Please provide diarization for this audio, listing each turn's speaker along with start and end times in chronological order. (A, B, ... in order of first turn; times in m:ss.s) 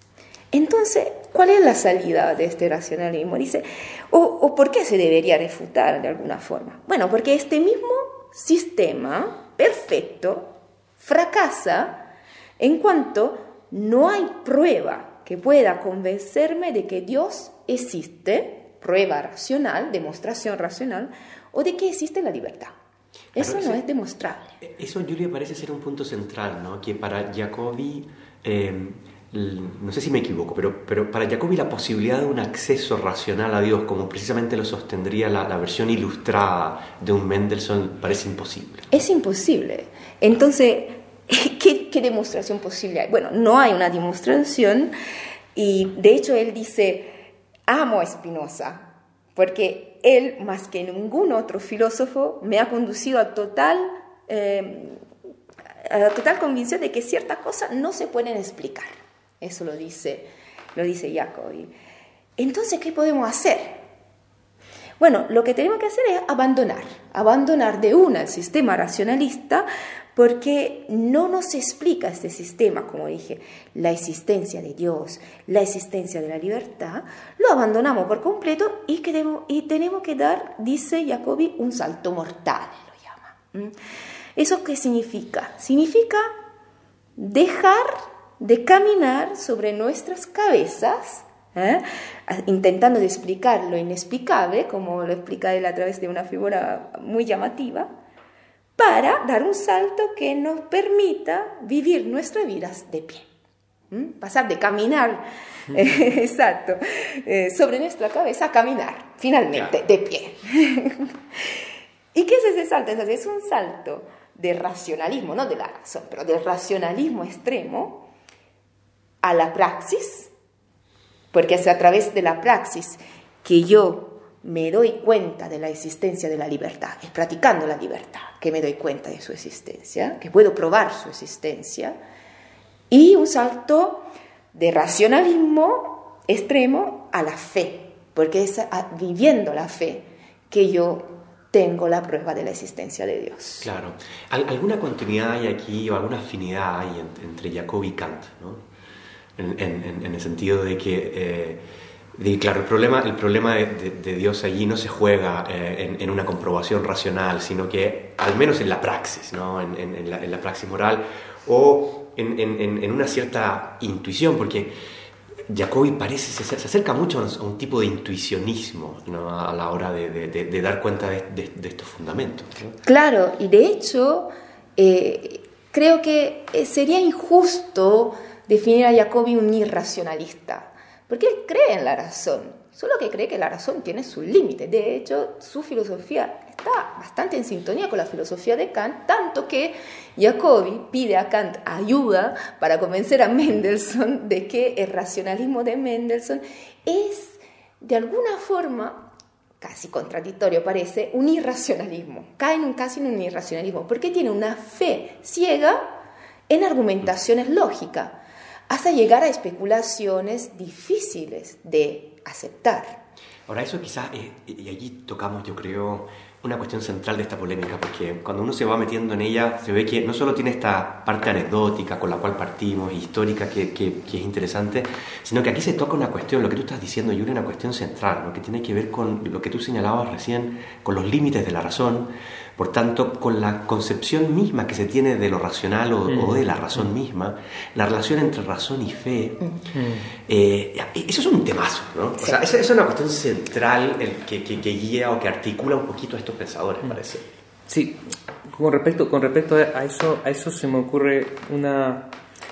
0:00.5-0:12.1 A
0:12.6-0:22.7 A
0:23.4-0:24.6 A
0:23.4-0:23.8 B
0:24.6-0:38.9 B
0:38.9-0:44.9 A
0:45.6-0:55.0 A
0:55.8-1:01.7 A
1:02.4-1:03.8 A
1:05.0-1:23.7 A
1:24.4-1:26.3 A
1:27.2-1:37.9 A
1:38.8-1:43.3 A
1:43.9-1:51.1 A
1:49.5-1:49.8 B
1:52.1-1:58.1 A
1:59.2-2:00.3 A
2:01.3-2:12.0 A
2:12.9-2:23.7 A
2:23.6-2:28.6 B
2:29.4-2:31.6 B
2:32.2-2:44.7 B
2:45.5-2:52.8 B
2:52.8-3:25.9 A
3:26.5-3:33.0 A
3:33.5-3:59.5 B
3:56.1-3:56.9 C
3:59.7-4:00.1 C
4:00.3-4:07.3 B
4:07.7-4:12.1 C